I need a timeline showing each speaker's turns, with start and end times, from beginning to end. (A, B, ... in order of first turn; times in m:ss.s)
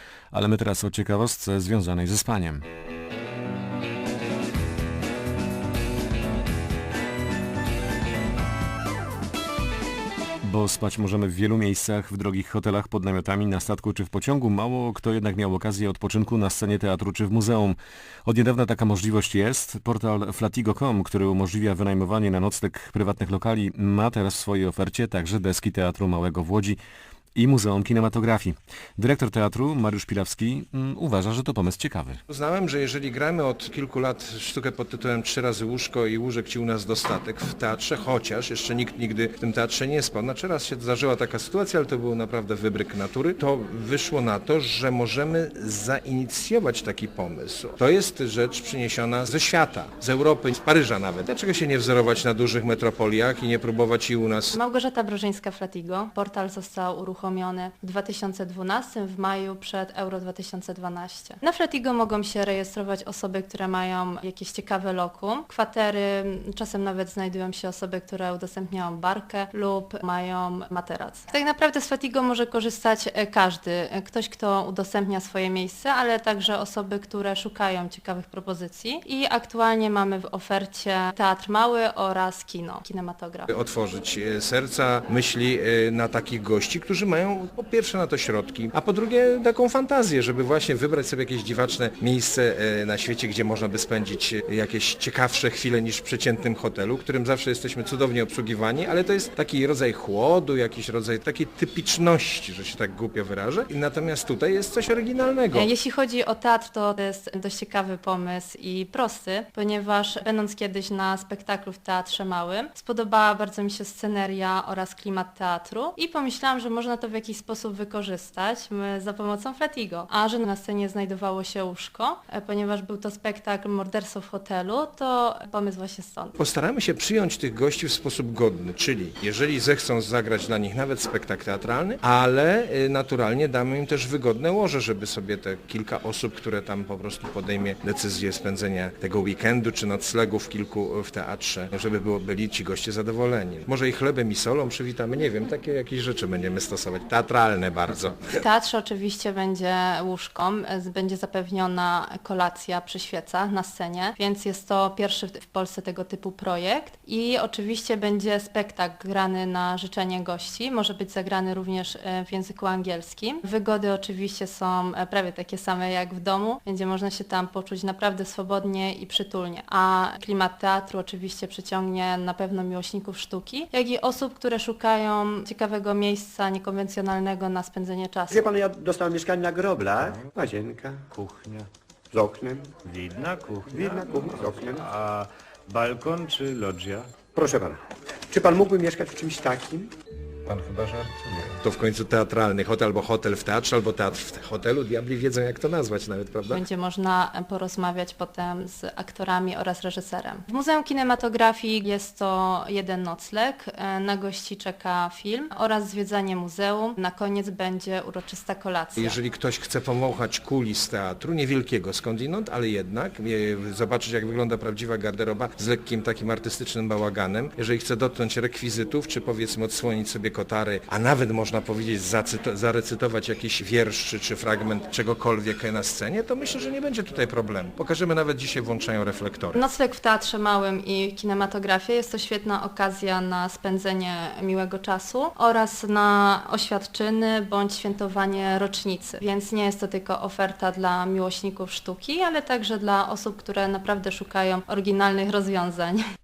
0:00.3-0:02.6 A
0:10.4-0:26.8 A
0:27.3-0:32.2 A
0:32.3-0:54.6 B
0:54.5-1:23.5 C
1:23.5-1:45.7 B
1:45.5-2:06.4 C
2:06.4-2:28.4 B
2:28.4-2:58.5 C
2:58.3-3:01.0 D
3:01.1-3:01.7 E
3:02.1-3:02.8 D
3:02.8-3:07.1 E
3:03.7-3:04.8 D
3:07.3-3:09.9 D
3:11.6-3:16.6 B
3:16.5-3:29.2 C
3:29.0-3:49.6 B
3:49.5-4:06.0 C